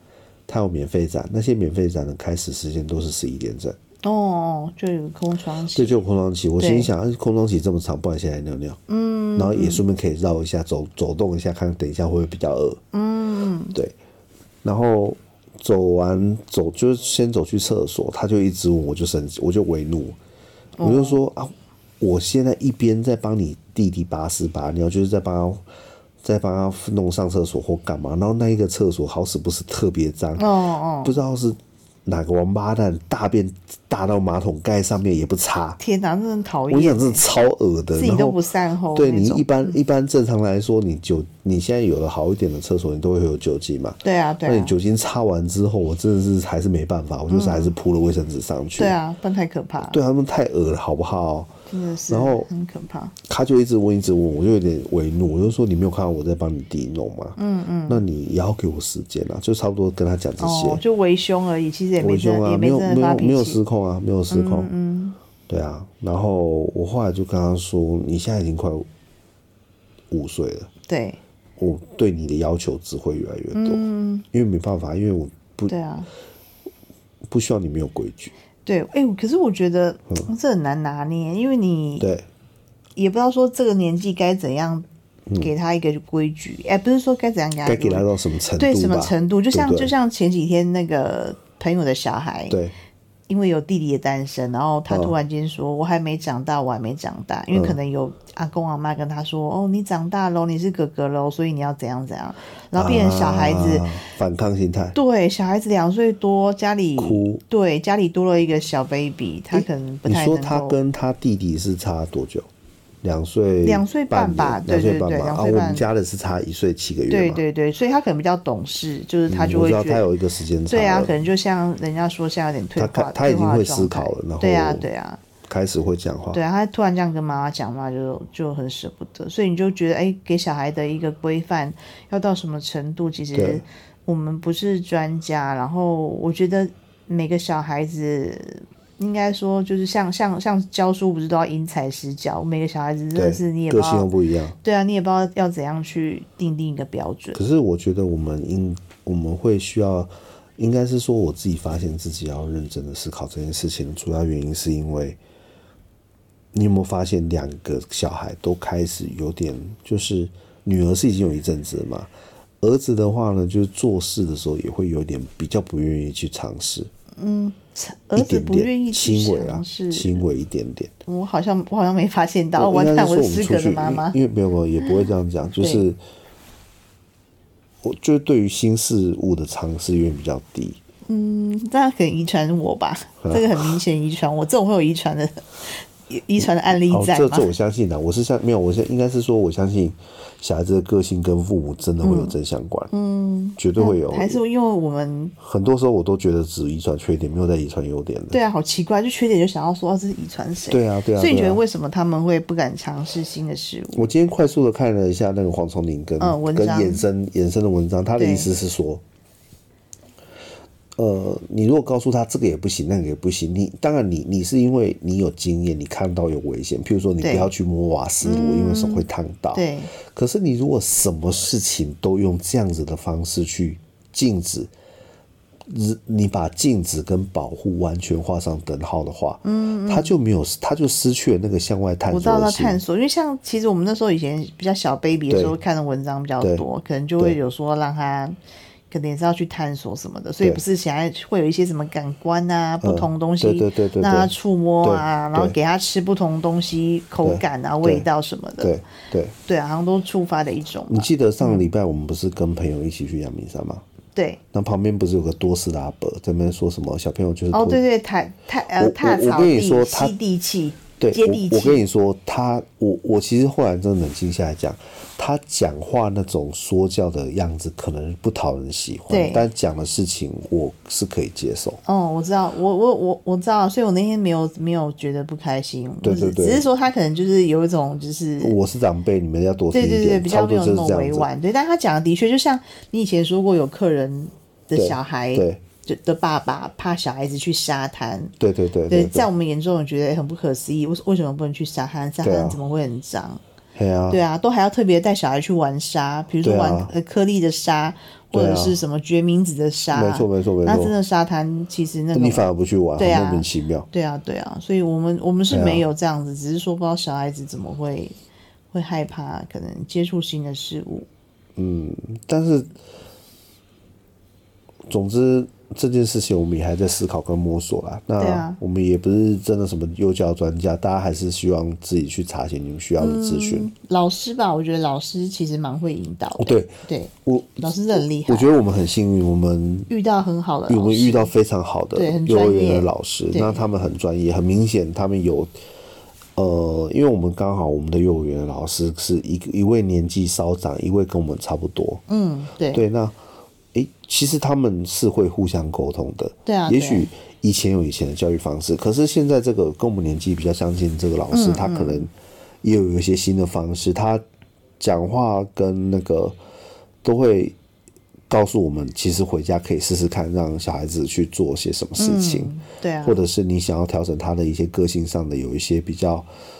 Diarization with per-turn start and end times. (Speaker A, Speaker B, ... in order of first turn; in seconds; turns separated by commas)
Speaker A: 0.5-3.8, Speaker B: 4.0-5.9, Speaker A: 5.7-8.8, Speaker B: 6.6-6.9, Speaker B: 8.9-9.8, Speaker A: 9.3-12.8, Speaker B: 12.9-13.8, Speaker A: 14.6-20.2, Speaker B: 20.8-21.2, Speaker A: 20.8-25.6, Speaker A: 26.2-30.4, Speaker B: 30.4-31.2, Speaker A: 31.0-35.8, Speaker B: 35.8-37.2, Speaker A: 36.7-38.4, Speaker B: 38.0-39.8, Speaker A: 38.9-49.0, Speaker B: 44.0-44.7, Speaker B: 47.3-47.7, Speaker B: 48.8-50.0, Speaker A: 49.8-51.5, Speaker B: 51.7-53.1, Speaker A: 52.1-52.5, Speaker A: 53.2-60.8, Speaker B: 57.4-58.0, Speaker B: 60.4-63.6, Speaker A: 62.0-64.7, Speaker B: 64.3-65.2, Speaker A: 65.5-68.9, Speaker A: 70.1-70.7, Speaker B: 70.9-71.2, Speaker A: 71.6-75.7, Speaker B: 73.5-74.2, Speaker B: 75.7-76.1, Speaker A: 77.3-78.3, Speaker B: 78.7-82.1, Speaker A: 82.0-82.2, Speaker B: 83.0-84.8, Speaker B: 85.4-88.1, Speaker A: 87.6-89.9, Speaker B: 88.6-92.6, Speaker B: 93.3-103.9, Speaker A: 94.9-95.2, Speaker A: 97.5-97.8, Speaker A: 102.7-105.0, Speaker B: 104.9-110.8, Speaker A: 107.0-107.4, Speaker A: 109.5-112.5, Speaker A: 113.0-117.4, Speaker B: 113.6-115.8, Speaker B: 117.1-120.0, Speaker A: 119.3-121.2, Speaker B: 120.7-125.2, Speaker A: 122.8-124.8, Speaker A: 125.5-126.4, Speaker B: 126.3-144.1, Speaker A: 133.3-133.6, Speaker A: 143.1-144.6, Speaker B: 144.6-147.4, Speaker A: 147.3-155.2, Speaker A: 156.5-162.1, Speaker A: 162.6-166.9, Speaker B: 167.2-170.2, Speaker A: 168.1-170.9, Speaker B: 171.1-174.2, Speaker A: 172.6-176.0, Speaker B: 175.6-175.8, Speaker A: 177.8-180.8, Speaker B: 181.1-187.5, Speaker A: 183.2-183.8, Speaker A: 186.4-192.9, Speaker B: 192.0-192.3, Speaker B: 192.9-195.3, Speaker A: 193.6-194.4, Speaker A: 195.4-198.4, Speaker B: 198.3-204.0, Speaker A: 200.7-201.6, Speaker A: 203.9-209.0, Speaker B: 206.2-207.0, Speaker B: 208.2-208.5, Speaker A: 210.9-224.7, Speaker B: 217.2-217.5, Speaker B: 218.2-219.9, Speaker A: 225.7-232.8, Speaker B: 229.4-230.1, Speaker B: 232.1-238.3, Speaker A: 235.3-235.6, Speaker A: 236.4-236.6, Speaker B: 238.9-248.7, Speaker A: 242.8-244.3, Speaker A: 244.8-245.6, Speaker A: 247.2-248.1, Speaker A: 248.6-249.3, Speaker B: 249.4-251.7, Speaker A: 250.9-253.8, Speaker B: 254.1-254.4, Speaker A: 254.5-257.8, Speaker B: 257.5-261.8, Speaker A: 258.8-260.1, Speaker A: 261.0-271.8, Speaker B: 269.1-269.4, Speaker B: 271.9-278.5, Speaker A: 276.0-276.6, Speaker A: 278.4-281.3, Speaker B: 279.7-288.3, Speaker A: 284.7-285.6, Speaker A: 288.4-289.3, Speaker B: 288.9-293.4, Speaker A: 292.2-292.6, Speaker A: 293.8-294.2, Speaker B: 294.1-308.1, Speaker A: 296.4-296.9, Speaker A: 298.3-298.8, Speaker A: 299.9-300.9, Speaker A: 302.1-303.9, Speaker A: 305.5-305.9, Speaker B: 308.7-311.1, Speaker A: 311.6-312.7, Speaker A: 314.9-323.7, Speaker B: 318.2-318.6, Speaker B: 323.0-328.5, Speaker A: 326.4-329.9, Speaker B: 329.9-331.3, Speaker A: 330.7-335.5, Speaker B: 331.9-333.6, Speaker A: 336.3-342.0, Speaker B: 342.1-342.8, Speaker A: 342.7-343.1, Speaker A: 343.7-352.1, Speaker B: 346.4-347.1, Speaker B: 351.3-352.1, Speaker A: 352.6-354.2, Speaker A: 354.8-356.4, Speaker A: 357.0-357.6, Speaker A: 358.3-362.5, Speaker B: 362.0-363.2, Speaker A: 363.0-366.3